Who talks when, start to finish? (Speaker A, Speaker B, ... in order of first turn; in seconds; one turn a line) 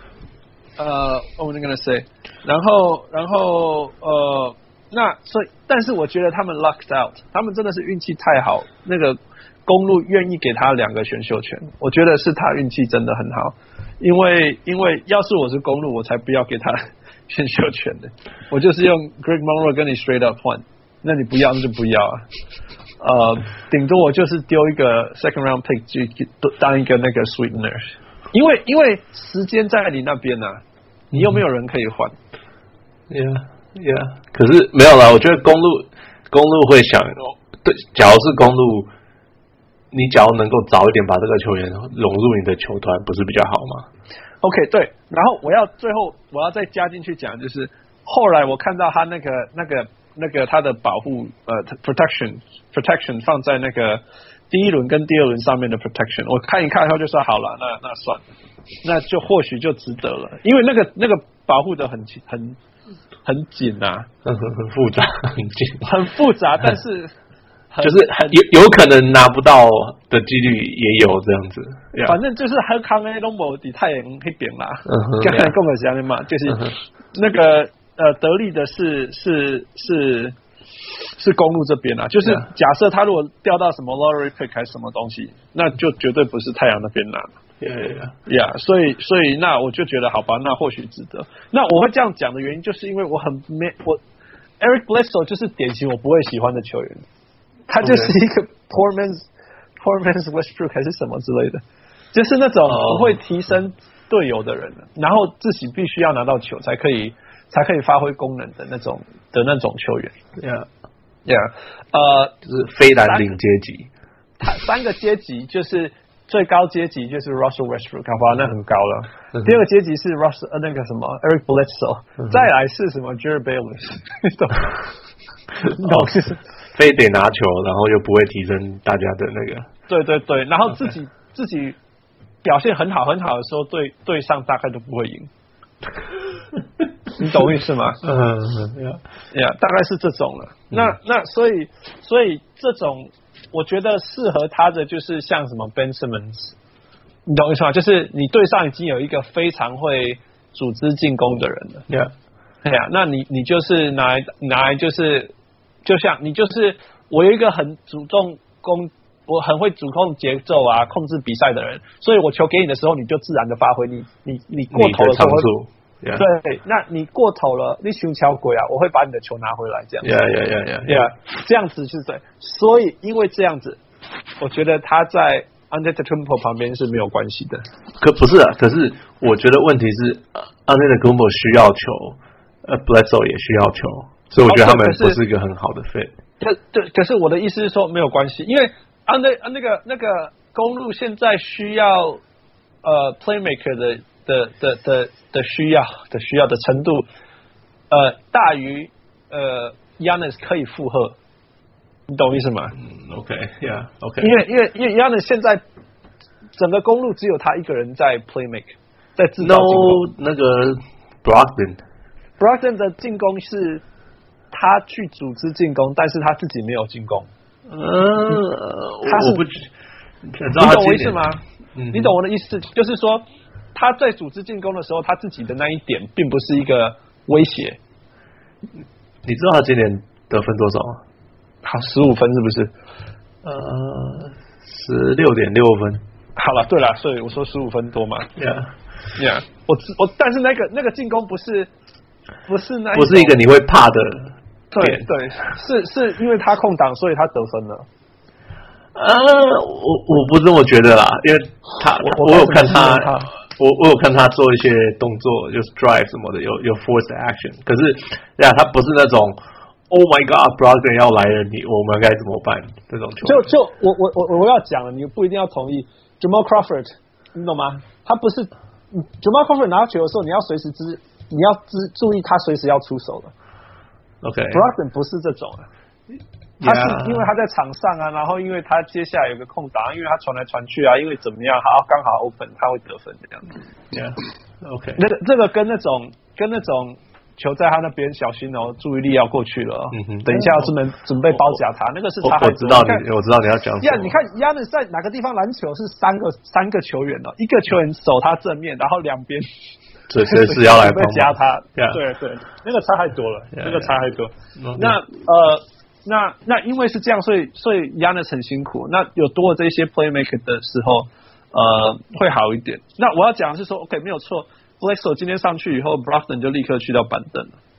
Speaker A: 0.8-22.2
Speaker A: 23.0-27.8
Speaker A: 28.3-30.6
Speaker A: 31.1-32.1
Speaker B: 31.1-31.4
Speaker B: 33.1-38.9
Speaker B: 39.9-43.9
Speaker A: 44.4-58.2
Speaker A: 58.8-62.6
Speaker A: 63.2-64.1
Speaker B: 64.2-65.8
Speaker A: 65.8-67.1
Speaker A: 67.7-68.4
Speaker B: 67.8-72.2
Speaker A: 72.0-80.4
Speaker B: 74.9-75.5
Speaker B: 76.5-76.7
Speaker A: 81.2-87.3
Speaker B: 87.6-88.2
Speaker A: 88.3-94.0
Speaker A: 94.6-97.0
Speaker A: 97.7-99.2
Speaker B: 97.8-98.1
Speaker A: 99.8-101.6
Speaker A: 102.1-110.1
Speaker B: 102.7-103.2
Speaker B: 110.4-110.7
Speaker A: 111.3-112.3
Speaker B: 112.5-113.9
Speaker A: 114.4-124.8
Speaker B: 125.6-129.7
Speaker A: 125.7-126.4
Speaker A: 129.9-131.8
Speaker A: 132.4-135.3
Speaker A: 137.2-138.0
Speaker B: 138.0-139.0
Speaker A: 139.3-146.6
Speaker A: 147.3-151.9
Speaker A: 152.6-155.3
Speaker A: 155.8-165.5
Speaker B: 164.7-166.3
Speaker A: 166.1-170.1
Speaker B: 170.0-171.1
Speaker A: 170.8-173.8
Speaker A: 174.4-177.6
Speaker B: 178.0-186.2
Speaker A: 184.4-185.2
Speaker A: 186.4-192.2
Speaker A: 192.8-197.1
Speaker A: 197.9-201.2
Speaker A: 202.1-202.8
Speaker B: 202.8-204.3
Speaker A: 204.2-205.6
Speaker A: 206.6-210.0
Speaker B: 209.4-211.8
Speaker A: 212.4-213.8
Speaker A: 214.5-217.3
Speaker B: 217.7-219.7
Speaker A: 219.1-219.4
Speaker B: 220.3-221.2
Speaker A: 220.6-221.4
Speaker B: 221.7-222.2
Speaker A: 221.9-227.8
Speaker B: 229.2-231.0
Speaker A: 231.6-232.7
Speaker B: 233.4-236.0
Speaker A: 236.4-238.3
Speaker B: 238.4-238.7
Speaker A: 239.2-241.7
Speaker A: 242.5-243.4
Speaker B: 242.9-245.1
Speaker A: 244.7-247.9
Speaker B: 248.9-259.4
Speaker A: 251.9-253.3
Speaker B: 259.9-263.5
Speaker A: 263.2-273.3
Speaker B: 274.2-274.7
Speaker A: 274.5-275.7
Speaker B: 276.6-277.3
Speaker A: 276.6-283.5
Speaker B: 283.9-285.0
Speaker A: 284.9-293.1
Speaker B: 289.9-290.7
Speaker B: 292.2-294.1
Speaker A: 293.8-299.5
Speaker B: 300.1-302.0
Speaker A: 300.2-317.6
Speaker B: 303.6-303.9
Speaker B: 304.6-305.0